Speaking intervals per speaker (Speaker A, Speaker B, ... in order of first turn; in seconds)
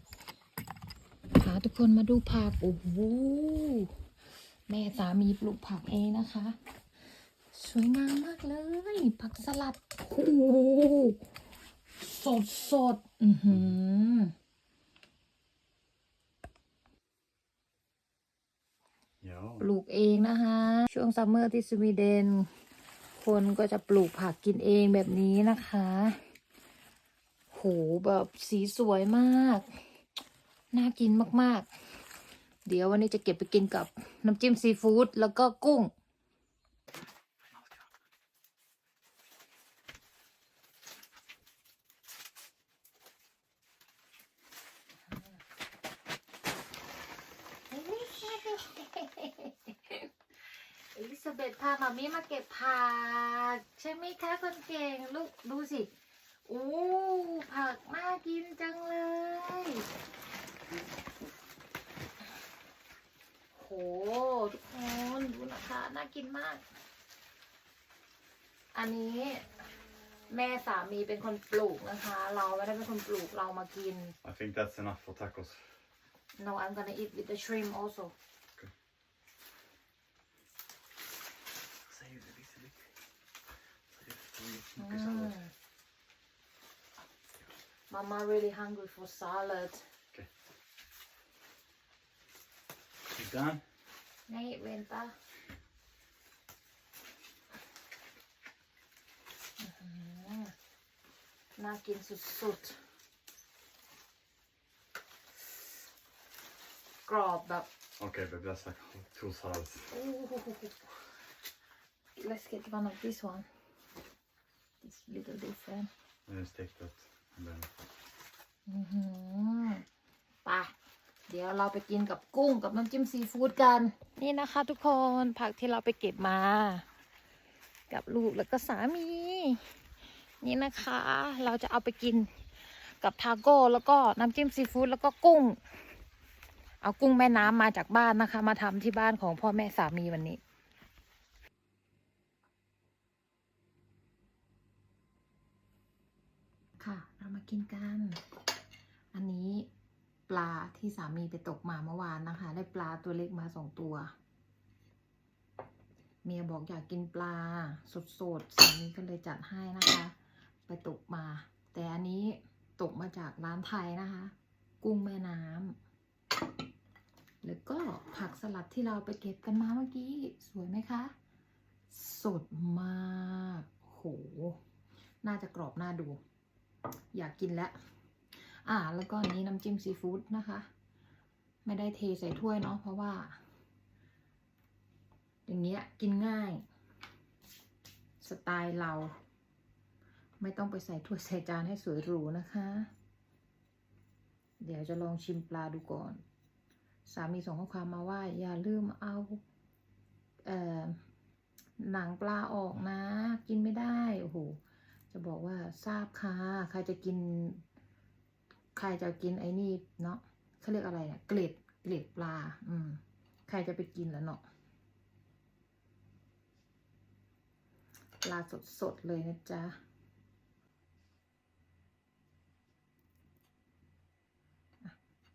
Speaker A: 1.4-4.0, 4.7-6.6, 7.5-11.2, 12.0-14.3, 19.6-22.5, 23.1-26.2, 27.5-29.8, 30.7-31.7, 32.7-35.9, 47.7-55.9, 56.5-59.9, 63.5-66.7, 68.7-69.7, 70.3-74.2, 76.4-78.1, 84.8-85.5, 87.9-89.9, 94.3-95.2, 99.6-100.5, 101.6-102.8, 107.0-107.7, 109.9-110.9, 112.2-113.5, 114.8-115.9, 118.7-119.8, 120.5-120.7, 121.3-126.9, 127.9-129.7, 130.4-135.6, 136.8-140.4, 146.8-148.2, 149.1-149.7, 150.3-154.1, 156.2-160.1, 160.7-165.8, 167.4-171.1, 171.9-174.6, 175.2-176.2, 177.1-177.8, 178.4-180.7, 181.7-183.4, 185.5-186.7, 188.2-189.1, 190.4-192.9, 194.6-196.2, 197.1-199.4, 200.4-201.0, 201.8-204.6, 205.1-207.6, 208.8-214.4, 218.2-219.8
Speaker B: 19.2-19.6, 74.2-75.8, 81.9-82.8, 83.9-85.4, 93.1-93.6, 108.0-109.9, 116.3-117.8